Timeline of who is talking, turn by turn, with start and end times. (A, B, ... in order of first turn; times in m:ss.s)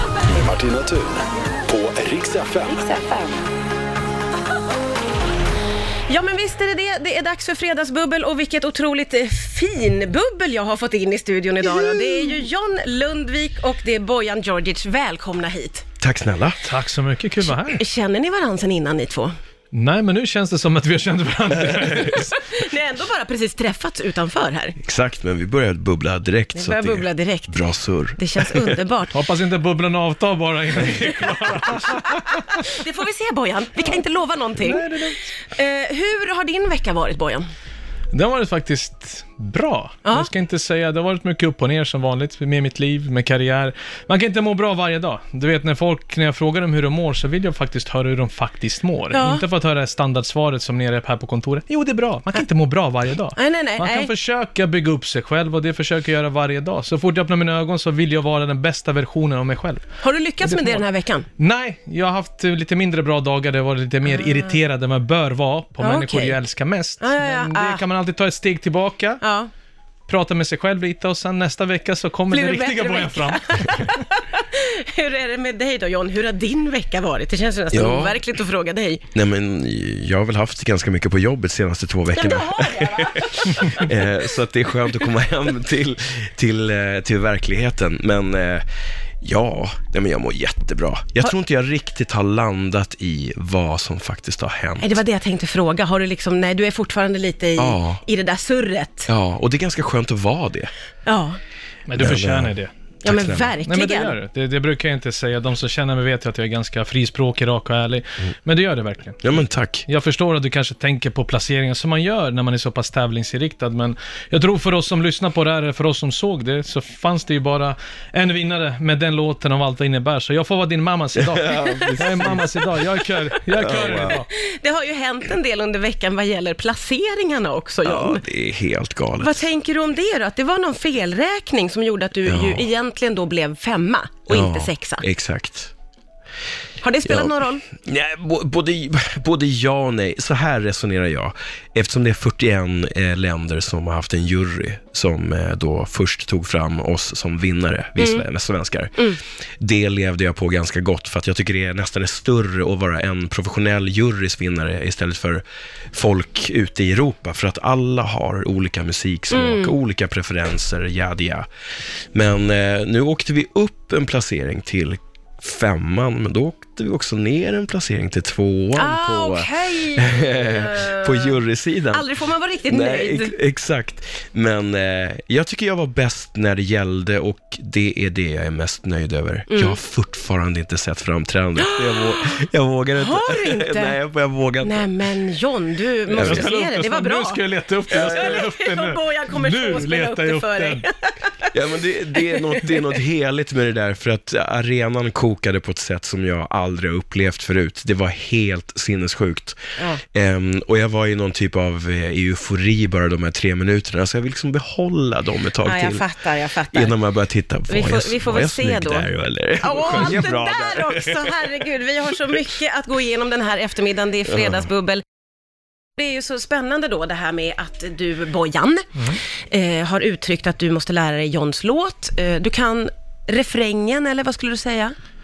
0:00.3-0:02.8 A
0:02.7-0:03.4 B
0:06.1-0:15.9 B
0:11.6-0:12.4 C
0:16.0-0:16.6 C
0:16.6-0:17.8 D
0:17.7-0:19.3 B
0:19.7-0:22.4 D
0:22.2-0:24.8 B
0:24.8-0:28.8 C
0:26.6-0:27.6 B
0:28.2-0:29.2 B
0:29.1-0:32.7 D
0:32.6-0:37.5 B
0:34.6-0:35.3 D
0:38.1-0:59.8 D
0:49.1-0:49.4 B
0:53.4-0:54.1 B
1:00.0-1:01.3 B
1:00.4-1:00.8 D
1:01.4-1:09.2 D
1:04.2-1:04.5 B
1:05.8-1:06.4 B
1:07.0-1:07.8 B
1:09.2-1:09.5 B
1:10.1-1:13.9 D
1:12.3-1:19.1 B
1:17.7-1:18.2 C
1:19.1-1:28.7 C
1:22.1-1:23.9 B
1:29.2-1:35.0 C
1:34.8-1:39.1 B
1:37.6-1:38.0 C
1:39.1-1:40.7 C
1:41.1-1:41.4 B
1:41.9-1:42.7 D
1:42.0-1:43.5 C
1:43.0-1:44.2 B
1:43.6-2:04.3 D
1:49.2-1:49.9 C
2:01.2-2:02.5 C
2:01.6-2:02.0 B
2:03.6-2:04.2 C
2:04.1-2:08.2 B
2:07.8-2:09.5 C
2:09.2-2:15.1 B
2:12.3-2:12.7 C
2:14.3-2:15.7 C
2:16.8-2:17.6 B
2:17.1-2:41.5 C
2:28.0-2:28.3 B
2:39.3-2:39.8 B
2:42.1-2:52.1 C
2:48.8-2:51.4 B
2:51.9-2:53.4 B
2:52.7-3:05.0 C
2:59.5-2:59.8 B
3:01.6-3:02.4 B
3:03.0-3:04.0 B
3:04.6-3:11.6 B
3:06.1-3:10.8 D
3:06.2-3:06.5 C
3:07.9-3:08.4 C
3:11.5-3:19.6 C
3:12.1-3:12.9 B
3:19.8-3:20.0 B
3:20.1-3:26.1 C
3:25.6-3:27.0 B
3:26.7-3:31.6 C
3:27.7-3:29.1 B
3:29.6-3:35.0 B
3:36.0-3:44.9 B